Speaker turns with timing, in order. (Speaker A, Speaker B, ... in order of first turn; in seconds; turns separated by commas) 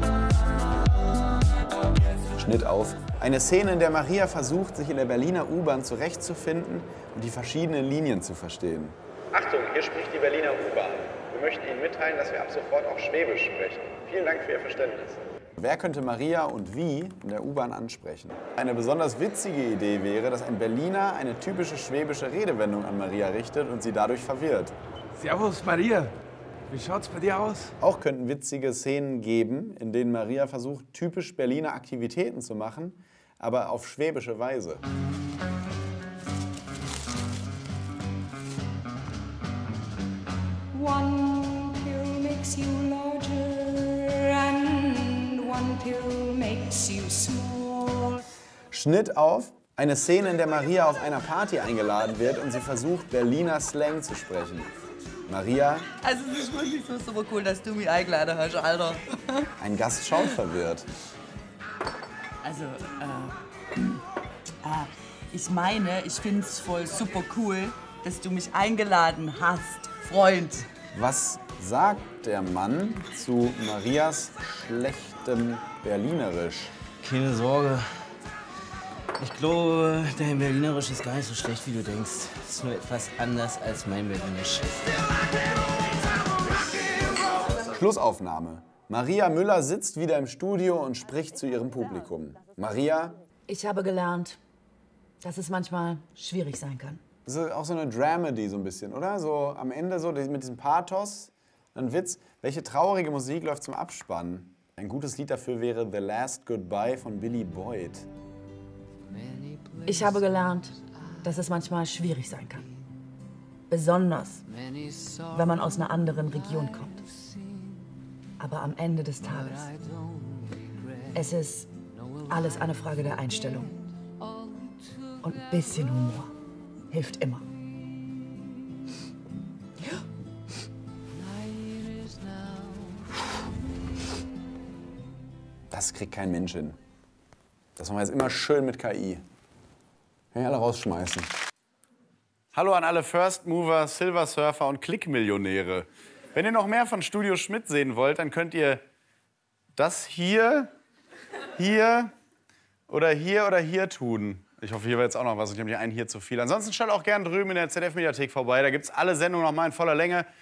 Speaker A: 2.2-24.7, Speaker B: 25.1-26.1, Speaker B: 26.7-27.7, Speaker A: 27.8-34.8, Speaker C: 40.7-48.2, Speaker A: 48.7-54.7, Speaker A: 55.2-55.9, Speaker D: 56.0-59.5, Speaker A: 59.6-60.9, Speaker D: 62.4-64.0, Speaker D: 64.6-70.7, Speaker A: 70.9-76.7, Speaker E: 77.0-77.9, Speaker E: 79.2-84.8, Speaker A: 87.6-93.2, Speaker D: 93.5-94.4, Speaker D: 95.2-97.0, Speaker A: 97.2-108.1, Speaker D: 109.7-112.7, Speaker D: 113.7-114.4, Speaker D: 115.0-117.3, Speaker D: 118.4-119.7, Speaker D: 121.1-121.7, Speaker D: 122.2-123.8, Speaker D: 125.2-126.3, Speaker D: 126.9-127.4, Speaker A: 135.7-136.8, Speaker A: 137.8-139.2, Speaker A: 140.3-141.3, Speaker A: 142.5-148.8, Speaker A: 149.8-150.7, Speaker A: 151.5-152.1, Speaker A: 152.9-160.3